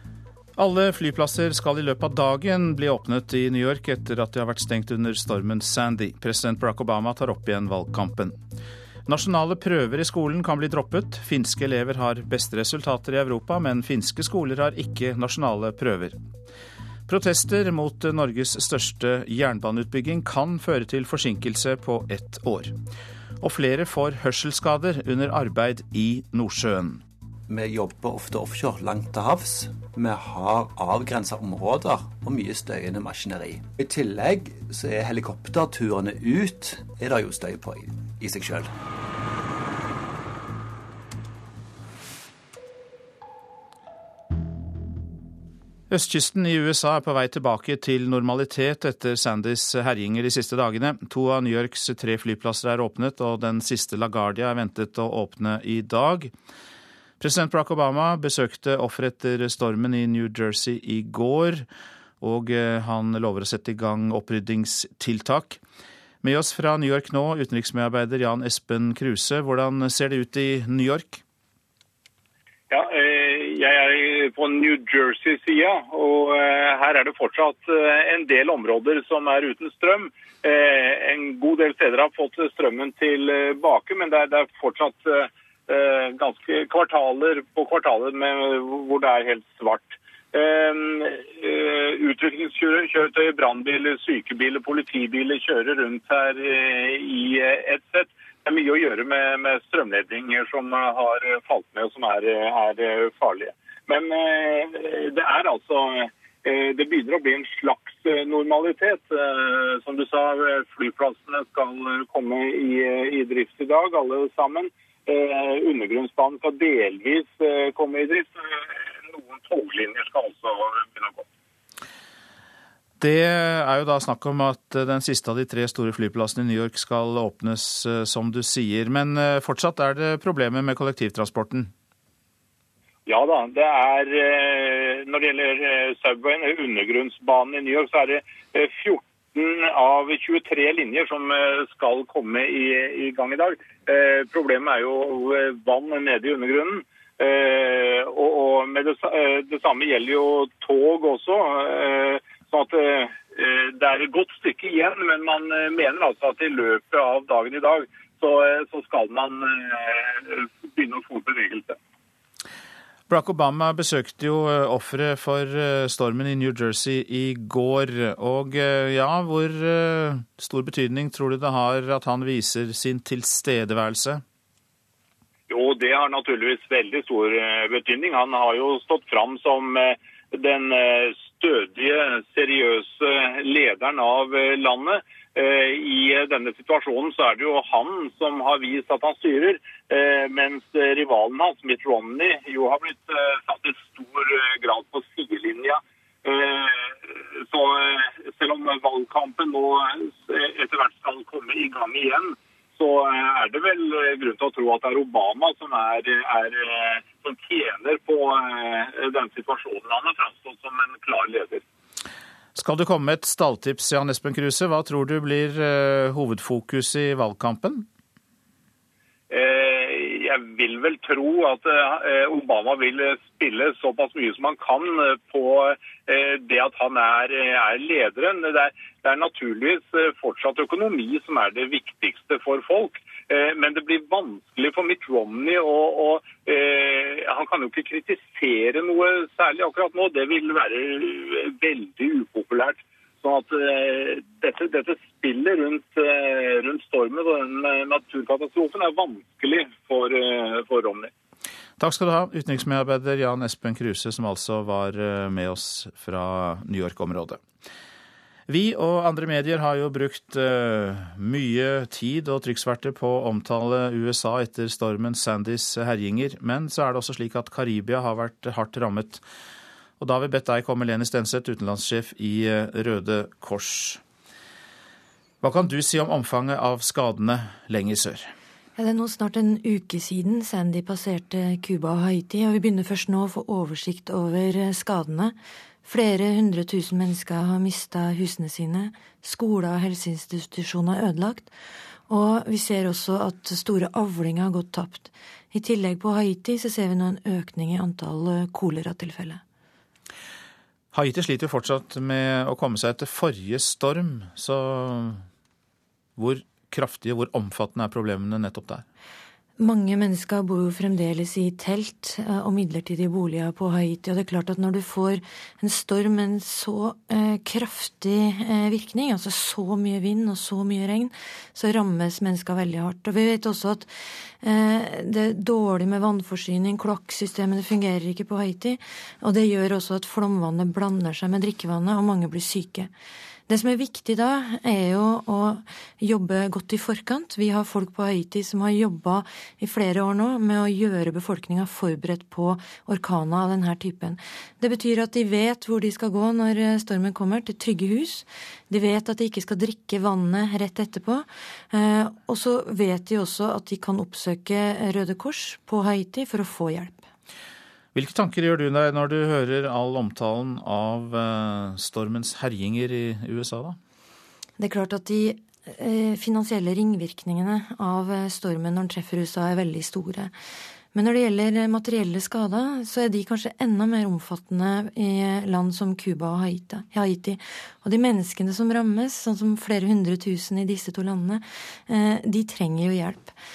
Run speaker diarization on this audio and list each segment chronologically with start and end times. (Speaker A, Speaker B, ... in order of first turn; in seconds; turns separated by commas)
Speaker A: 0.6-8.4, Speaker A: 9.1-16.2, Speaker A: 17.1-22.7, Speaker A: 23.4-27.0, Speaker B: 27.5-38.7, Speaker A: 45.9-56.3, Speaker A: 57.2-61.7, Speaker A: 62.2-65.6, Speaker A: 66.2-71.2, Speaker C: 72.7-121.3, Speaker A: 123.0-131.7, Speaker C: 133.1-161.8, Speaker A: 163.1-174.2, Speaker C: 175.5-211.6, Speaker A: 212.6-217.9, Speaker C: 219.3-251.1, Speaker A: 251.8-257.4, Speaker A: 258.5-269.2, Speaker A: 270.0-274.0, Speaker A: 275.4-278.3, Speaker D: 278.8-291.5, Speaker D: 292.1-299.4, Speaker A: 300.9-305.2, Speaker A: 306.2-308.9, Speaker D: 309.6-332.9, Speaker D: 333.5-357.1, Speaker A: 357.9-363.8, Speaker D: 364.6-370.4, Speaker D: 370.9-383.4